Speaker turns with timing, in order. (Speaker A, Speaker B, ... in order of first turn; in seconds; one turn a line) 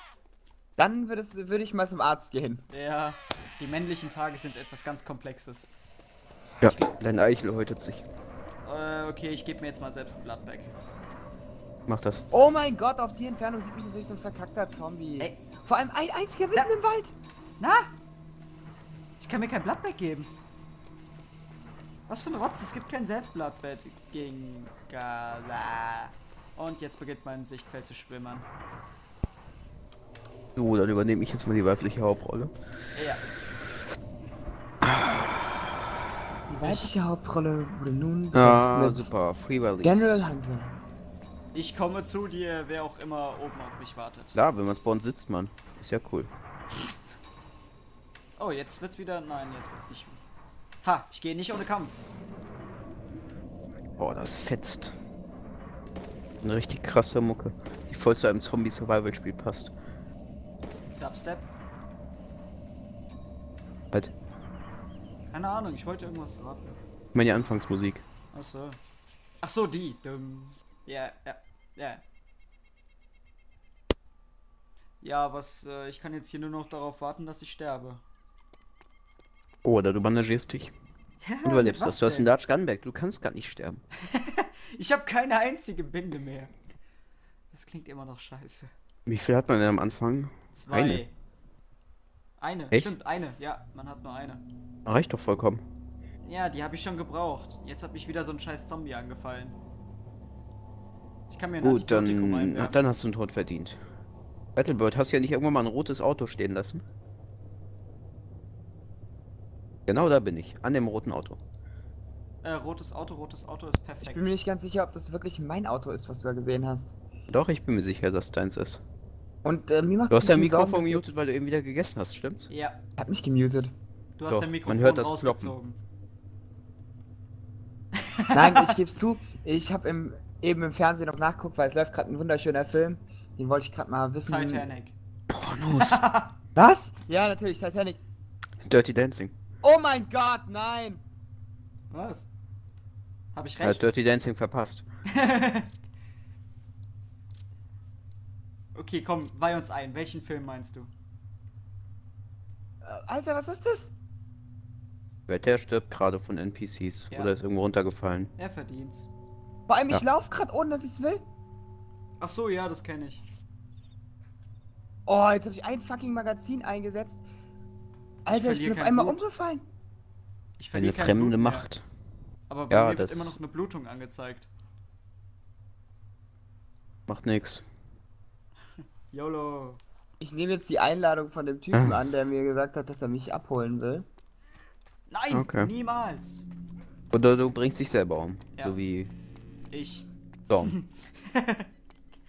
Speaker A: 0.8-2.6
Speaker B: 2.7-5.7
Speaker C: 6.6-8.1
Speaker B: 6.6-6.9
Speaker B: 8.6-10.7
Speaker C: 11.9-12.2
Speaker A: 12.3-17.1
Speaker B: 17.6-17.9
Speaker B: 19.2-20.3
Speaker B: 22.1-28.5
Speaker C: 30.6-32.5
Speaker B: 33.0-33.2
Speaker C: 34.8-35.3
Speaker A: 36.5-39.1
Speaker B: 36.6-36.9
Speaker C: 38.3-40.3
Speaker A: 39.8-40.8
Speaker B: 41.5-44.4
Speaker C: 44.4-46.3
Speaker B: 48.4-50.2
Speaker B: 50.8-52.1
Speaker C: 54.0-55.0
Speaker C: 56.4-59.7
Speaker B: 61.0-61.5
Speaker B: 65.3-66.8
Speaker C: 67.1-68.0
Speaker B: 68.3-68.8
Speaker B: 69.4-72.0
Speaker B: 75.0-78.0
Speaker C: 79.6-80.7
Speaker B: 81.2-82.3
Speaker C: 81.5-83.8
Speaker B: 84.0-86.5
Speaker B: 87.5-88.7
Speaker C: 89.1-91.0
Speaker B: 90.5-91.1
Speaker B: 92.4-94.4
Speaker C: 94.9-95.6
Speaker B: 96.2-99.6
Speaker B: 101.3-102.9
Speaker C: 101.6-103.8
Speaker C: 104.6-106.8
Speaker C: 109.9-111.4
Speaker B: 112.4-114.3
Speaker A: 114.0-117.0
Speaker C: 117.3-118.8
Speaker A: 119.4-121.1
Speaker C: 120.1-122.5
Speaker B: 122.5-122.8
Speaker A: 123.0-123.7
Speaker B: 124.2-125.8
Speaker C: 124.3-125.5
Speaker B: 128.0-128.7
Speaker A: 128.3-134.7
Speaker B: 134.2-134.9
Speaker C: 135.3-136.0
Speaker B: 135.8-136.3
Speaker A: 136.6-138.0
Speaker C: 138.6-139.3
Speaker A: 139.6-141.0
Speaker B: 141.9-142.3
Speaker B: 143.3-143.9
Speaker C: 143.6-144.8
Speaker B: 145.1-145.7
Speaker B: 148.7-150.9
Speaker A: 152.8-153.9
Speaker C: 155.3-158.3
Speaker B: 158.4-159.1
Speaker A: 159.7-161.2
Speaker B: 162.2-163.2
Speaker A: 165.1-167.2
Speaker A: 168.3-169.7
Speaker B: 168.3-169.2
Speaker B: 170.6-171.7
Speaker C: 170.7-171.8
Speaker B: 172.5-174.5
Speaker C: 172.7-173.4
Speaker C: 177.1-177.7
Speaker B: 179.1-179.8
Speaker A: 180.2-184.1
Speaker C: 181.7-182.1
Speaker B: 185.1-186.5
Speaker C: 185.3-185.7
Speaker C: 187.1-189.1
Speaker B: 189.7-190.1
Speaker B: 190.6-191.7